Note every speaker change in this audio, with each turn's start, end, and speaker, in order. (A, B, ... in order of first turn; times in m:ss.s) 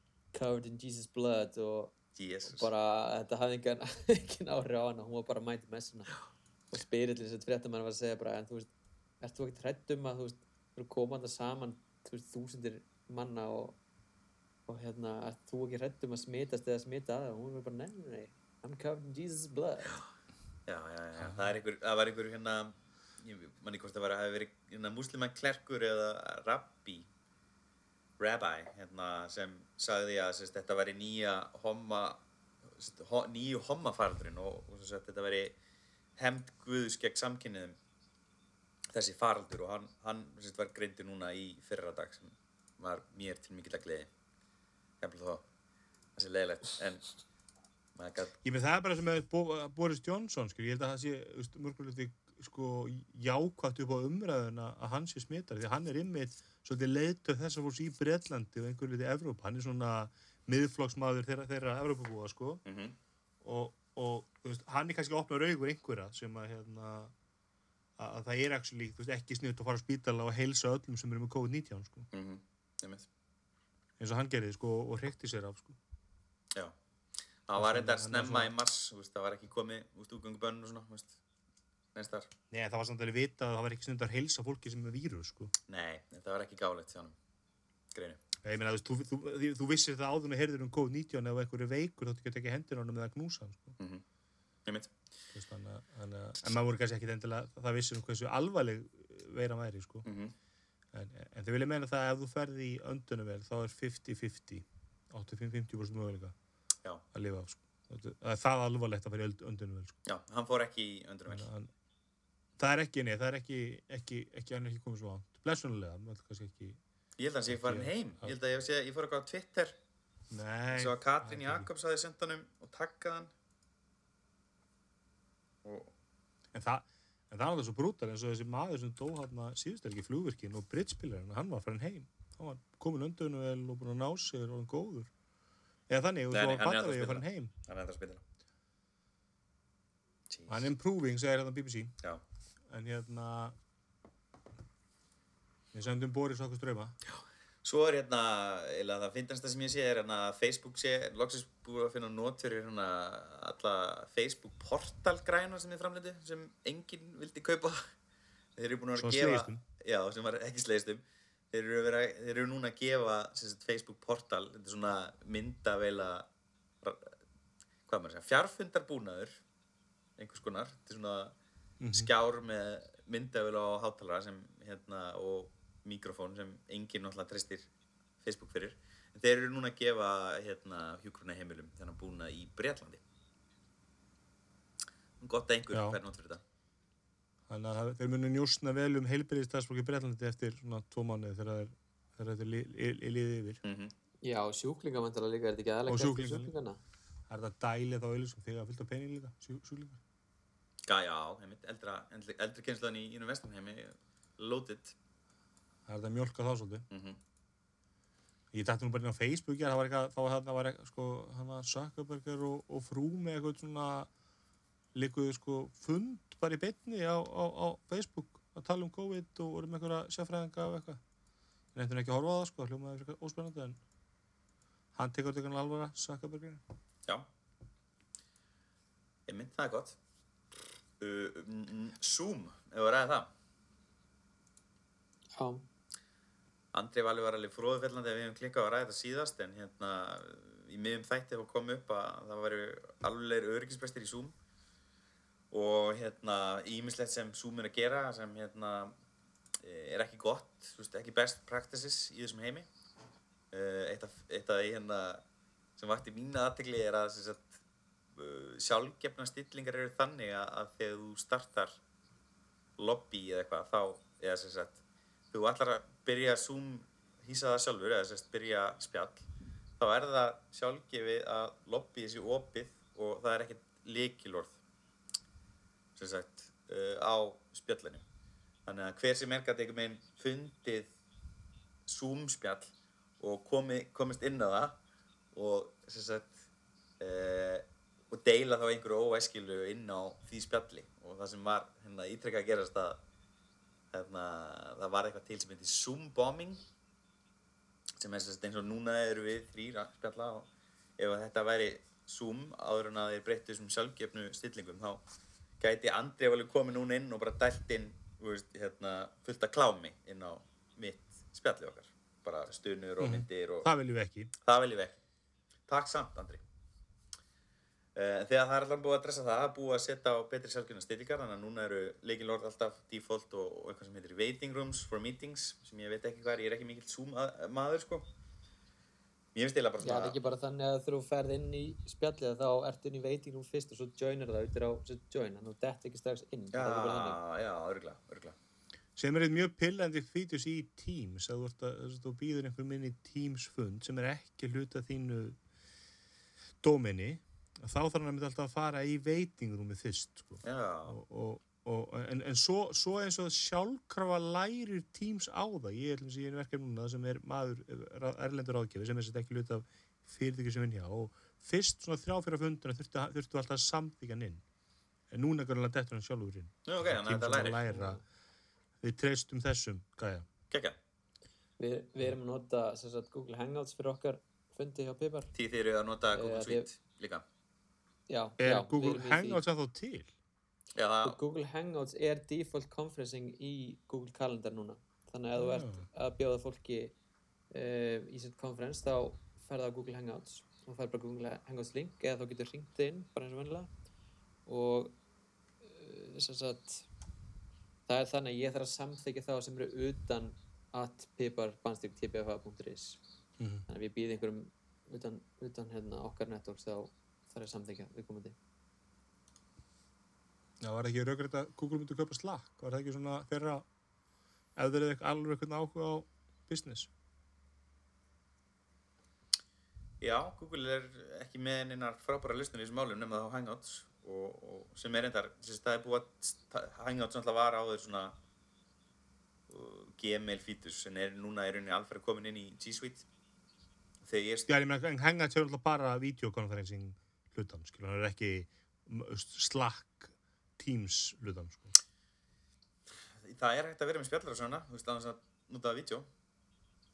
0:00.3-0:01.9 A
0:02.2-0:02.7 B
0:02.5-0:06.1 A
0:06.7-0:08.7 A
0:09.2-0:13.8 A
0:14.7-0:20.0 A
0:20.7-0:27.1 B
0:21.2-0:21.6 C
0:28.2-0:32.2 B
0:32.8-0:35.6 B
0:36.2-0:37.8 B
0:38.9-0:44.1 B
0:45.0-0:45.4 B
0:46.2-0:47.1 B
0:48.0-0:48.4 B
0:48.4-1:02.6 C
1:02.7-1:03.0 B
1:03.4-1:07.1 C
1:08.0-1:12.1 C
1:12.1-1:13.1 B
1:14.0-1:15.8 C
1:17.5-1:21.2 B
1:17.6-1:18.5 C
1:22.0-1:22.3 B
1:22.5-1:25.5 C
1:25.7-1:27.2 B
1:27.9-1:28.2 B
1:28.4-1:33.8 C
1:34.7-1:34.9 B
1:35.3-1:40.1 C
1:40.0-1:40.3 B
1:40.9-1:46.3 C
1:47.1-1:50.0 C
1:50.1-1:51.5 B
1:51.3-1:51.7 C
1:52.6-1:56.8 C
1:57.2-1:59.8 B
1:57.5-1:58.4 C
2:00.3-2:01.7 C
2:00.7-2:03.3 B
2:05.6-2:05.9 B
2:06.5-2:15.1 C
2:15.9-2:17.5 C
2:16.3-2:18.2 B
2:20.3-2:20.7 B
2:20.5-2:21.9 C
2:22.7-2:23.6 C
2:25.7-2:27.0 C
2:27.1-2:37.9 B
2:38.6-2:46.3 B
2:39.0-2:39.6 C
2:46.8-2:47.1 B
2:47.9-2:49.4 B
2:50.2-2:51.4 B
2:51.8-2:52.1 C
2:51.9-2:57.7 B
2:58.2-3:03.0 B
3:05.2-3:06.4 B
3:05.7-3:06.0 C
3:07.5-3:13.6 C
3:13.6-3:13.9 B
3:14.2-3:16.8 A
3:15.9-3:16.5 C
3:17.3-3:20.0 C
3:20.9-3:25.0 B
3:25.9-3:26.9 C
3:26.9-3:27.2 B
3:28.5-3:34.1 C
3:34.9-3:41.0 C
3:41.7-3:43.8 C
3:45.0-3:46.6 C
3:49.3-3:50.0 B
3:51.0-3:53.3 B
3:55.4-3:55.7 A
3:56.7-4:04.4 B
4:05.5-4:09.0 B
4:09.6-4:12.7 B
4:13.5-4:15.2 B
4:15.8-4:17.6 B
4:18.2-4:21.8 B
4:22.8-4:24.8 B
4:25.3-4:29.3 B
4:29.8-4:34.6 B
4:36.0-4:38.0 B
4:38.7-4:40.9 B
4:41.9-4:44.8 B
4:45.3-4:46.4 B
4:47.0-4:53.0 B
4:53.9-4:56.6 B
4:58.0-5:05.0 B
5:05.6-5:13.7 B
5:13.0-5:14.3 C
5:14.4-5:15.0 B
5:15.7-5:16.4 B
5:18.0-5:28.1 B
5:29.4-5:30.2 B
5:29.8-5:37.2 A
5:36.5-5:38.4 B
5:39.0-5:45.4 C
5:46.6-6:04.4 C
5:50.4-5:51.0 B
6:05.1-6:08.0 C
6:06.7-6:07.9 B
6:08.8-6:10.3 C
6:10.5-6:10.8 B
6:11.6-6:15.3 A
6:15.3-6:17.2 B
6:16.1-6:16.7 A
6:18.1-6:19.4 A
6:18.4-6:20.1 C
6:20.7-6:21.2 B
6:21.0-6:27.0 A
6:25.4-6:25.9 C
6:27.5-6:33.7 A
6:34.5-6:35.0 A
6:35.6-6:36.9 A
6:37.9-6:43.0 A
6:43.4-6:43.6 C
6:43.7-6:48.4 A
6:50.6-6:53.7 C
6:54.6-6:56.9 C
7:00.0-7:08.2 B
7:09.5-7:13.0 B
7:14.0-7:14.5 B
7:14.5-7:21.7 C
7:23.1-7:26.1 B